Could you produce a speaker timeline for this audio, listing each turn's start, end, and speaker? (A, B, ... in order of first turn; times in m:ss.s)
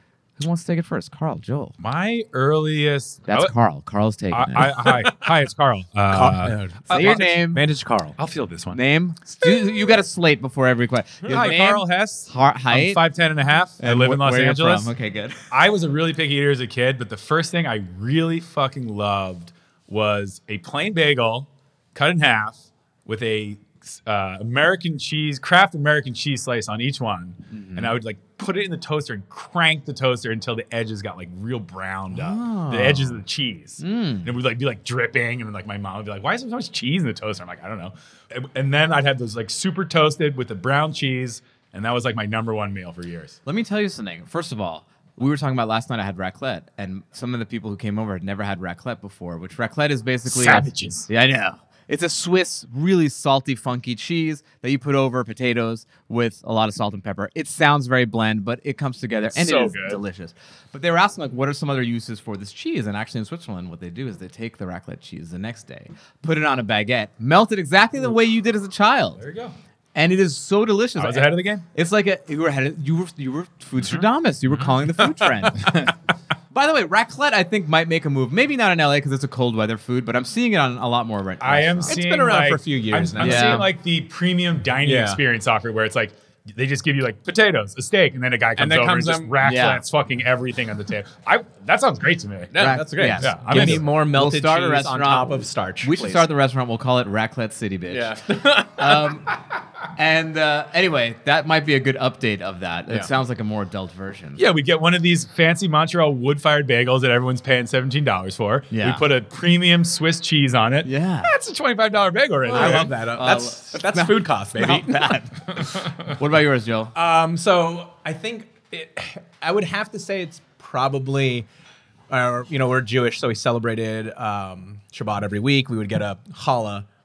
0:00.4-0:01.8 A
0:01.8-0:03.5 B
0:03.3-0:04.7 A
0:04.3-0:07.3 B
0:04.8-0:05.2 C
0:06.1-0:08.2 C
0:06.9-0:07.6 A
0:08.2-0:08.8 B
0:08.7-0:13.0 A
0:11.2-0:11.6 C
0:11.3-0:14.9 B
0:13.8-0:15.4 A
0:15.5-0:43.4 B
0:27.5-0:27.9 A
0:32.1-0:33.2 A
0:33.8-0:34.3 A
0:43.4-1:09.2 A
0:50.3-0:51.1 B
0:59.3-1:00.0 B
1:09.2-1:09.5 B
1:09.9-1:15.7 A
1:11.0-1:11.6 B
1:15.6-1:15.9 B
1:16.5-1:22.0 A
1:21.4-1:33.9 B
1:21.9-1:23.7 C
1:23.2-1:23.7 A
1:24.8-1:25.2 C
1:28.6-1:29.4 C
1:29.4-1:29.8 A
1:32.5-1:36.3 C
1:32.6-1:39.3 A
1:37.9-1:39.2 C
1:39.9-1:44.4 A
1:44.4-1:52.9 B
1:48.7-1:49.0 A
1:50.8-1:51.3 A
1:52.4-1:55.1 C
1:52.5-1:56.9 A
1:55.6-1:56.1 B
1:56.9-2:01.5 C
2:02.1-2:06.8 C